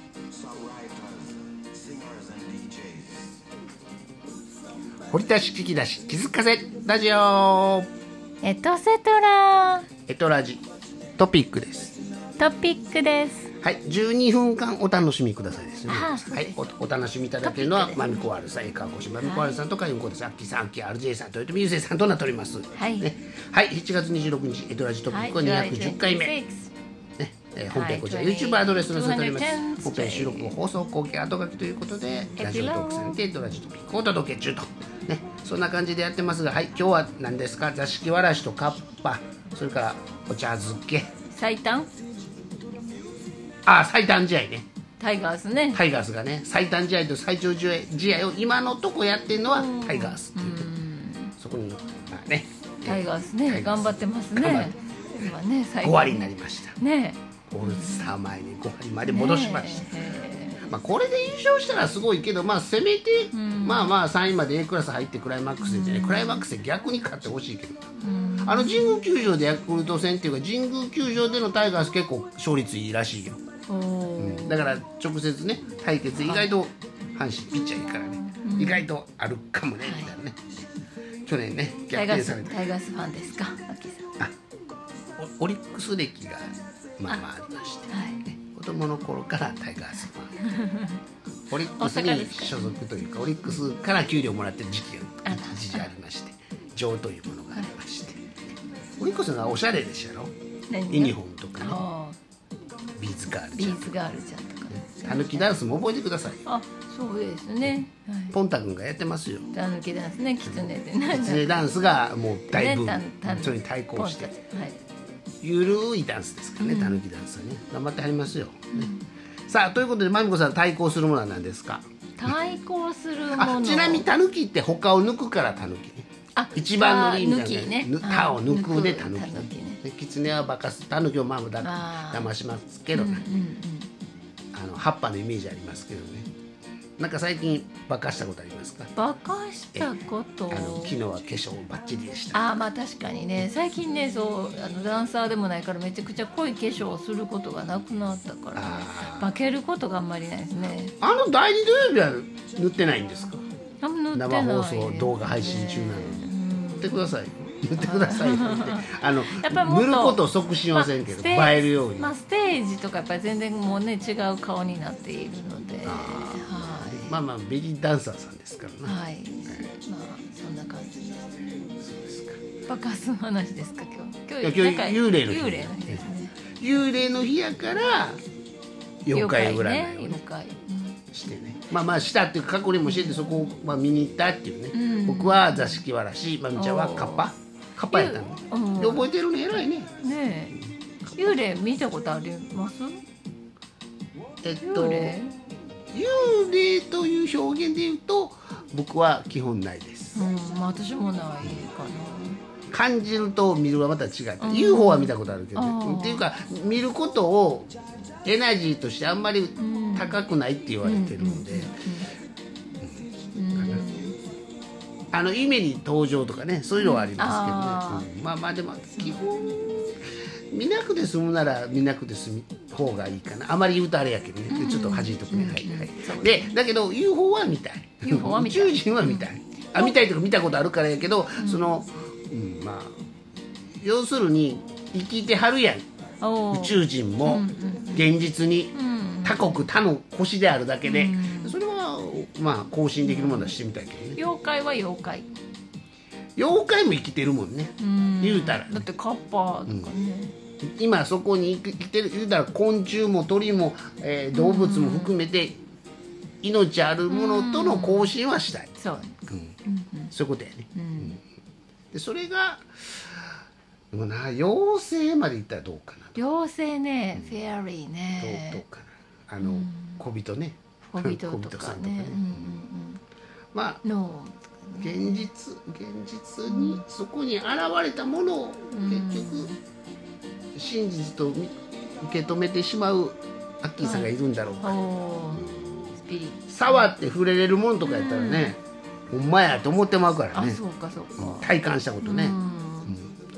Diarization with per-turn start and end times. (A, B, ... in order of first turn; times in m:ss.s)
0:00.3-0:03.3 A
0:05.1-0:07.9 B
0:08.4-0:09.9 C
0:10.1-0:10.6 B
0:11.2-0:12.0 B
0:12.4-0:13.5 C
0:13.6-0:26.3 B
0:15.9-0:16.6 C
0:17.4-0:18.3 C
0:19.2-0:19.6 C
0:22.7-0:23.1 C
0:25.1-0:26.7 C
0:27.2-0:41.1 B
0:27.7-0:30.5 C
0:32.4-0:33.2 C
0:41.3-0:41.9 C
0:43.6-0:44.6 B
0:45.0-0:45.8 C
0:45.7-0:50.7 B
0:49.5-0:51.3 C
0:51.4-0:54.7 B
0:52.8-0:58.1 C
0:55.8-0:56.8 B
0:57.5-1:00.0 B
0:59.1-1:00.8 C
1:00.6-1:07.8 B
1:03.3-1:04.0 C
1:05.6-1:06.5 C
1:08.0-1:09.0 C
1:08.4-1:13.4 B
1:13.7-1:14.8 C
1:14.2-1:20.5 B
1:16.2-1:16.5 C
1:18.3-1:18.8 C
1:19.8-1:20.1 C
1:21.2-1:22.6 B
1:21.9-1:24.1 C
1:25.2-1:30.6 B
1:27.9-1:28.2 C
1:30.4-1:31.0 C
1:31.5-1:38.3 B
1:31.6-1:32.8 C
1:35.2-1:35.9 C
1:39.0-1:40.3 B
1:40.7-1:42.2 C
1:40.9-1:41.8 B
1:43.0-1:43.9 B
1:43.6-1:45.7 C
1:44.9-1:46.4 B
1:46.4-1:48.3 C
1:48.3-1:49.5 B
1:49.5-1:51.7 C
1:50.5-1:54.3 B
1:52.5-1:54.8 C
1:55.4-1:58.9 B
1:56.6-1:57.0 C
1:58.7-1:59.0 C
1:59.5-2:02.4 B
2:02.2-2:04.1 C
2:03.3-2:13.2 B
2:06.3-2:09.8 C
2:11.6-2:12.3 C
2:12.9-2:13.9 C
2:14.5-2:16.3 B
2:17.0-2:18.9 B
2:18.9-2:21.0 C
2:20.5-2:22.5 B
2:22.3-2:30.9 C
2:28.5-2:29.3 B
2:31.0-2:33.4 B
2:33.8-2:37.1 C
2:34.1-2:36.3 B
2:36.8-2:42.1 B
2:37.8-2:47.2 C
2:45.8-2:49.0 B
2:48.8-2:51.5 C
2:51.6-2:52.4 B
2:52.6-2:56.4 C
2:54.4-2:56.0 B
2:56.6-2:58.2 B
2:59.0-3:00.2 B
2:59.1-3:01.0 C
3:01.1-3:09.9 B
3:02.8-3:03.5 C
3:04.7-3:05.8 C
3:06.5-3:07.3 C
3:07.8-3:10.6 C
3:11.2-3:13.0 C
3:14.4-3:15.2 B
3:14.6-3:15.3 C
3:15.9-3:20.2 B
3:20.1-3:22.4 C
3:22.7-3:27.7 B
3:24.4-3:26.2 C
3:28.2-3:31.8 B
3:29.6-3:30.2 C
3:30.8-3:32.1 C
3:33.3-3:34.2 C
3:33.5-3:33.9 B
3:35.1-3:53.0 B
3:36.8-3:38.1 C
3:39.0-3:39.3 C
3:44.5-3:46.6 C
3:48.0-3:50.0 C
3:51.4-3:51.7 C
3:53.8-3:55.8 B
3:56.2-3:58.1 C
3:56.5-4:04.2 B
3:58.7-3:59.7 C
4:00.8-4:01.6 C
4:03.0-4:03.5 C
4:04.1-4:05.3 C
4:06.4-4:08.9 B
4:07.8-4:10.3 C
4:10.6-4:15.6 B
4:14.3-4:15.2 C
4:16.4-4:18.7 B
4:17.1-4:18.1 C
4:18.8-4:20.1 C
4:19.3-4:19.6 B
4:20.1-4:21.2 B
4:20.7-4:21.2 C
4:21.9-4:23.3 B
4:23.9-4:26.2 B
4:26.1-4:28.6 C
4:28.2-4:32.6 B
4:29.4-4:30.0 C
4:30.8-4:33.0 C
4:33.5-4:33.8 B
4:33.8-4:35.3 C
4:34.8-4:39.5 B
4:36.5-4:36.8 C
4:38.7-4:39.6 C
4:40.5-4:44.8 B
4:43.8-4:46.9 C
4:46.5-4:48.6 B
4:47.8-4:48.5 C
4:49.1-4:50.6 B
4:50.3-4:53.0 C
4:51.2-4:53.1 B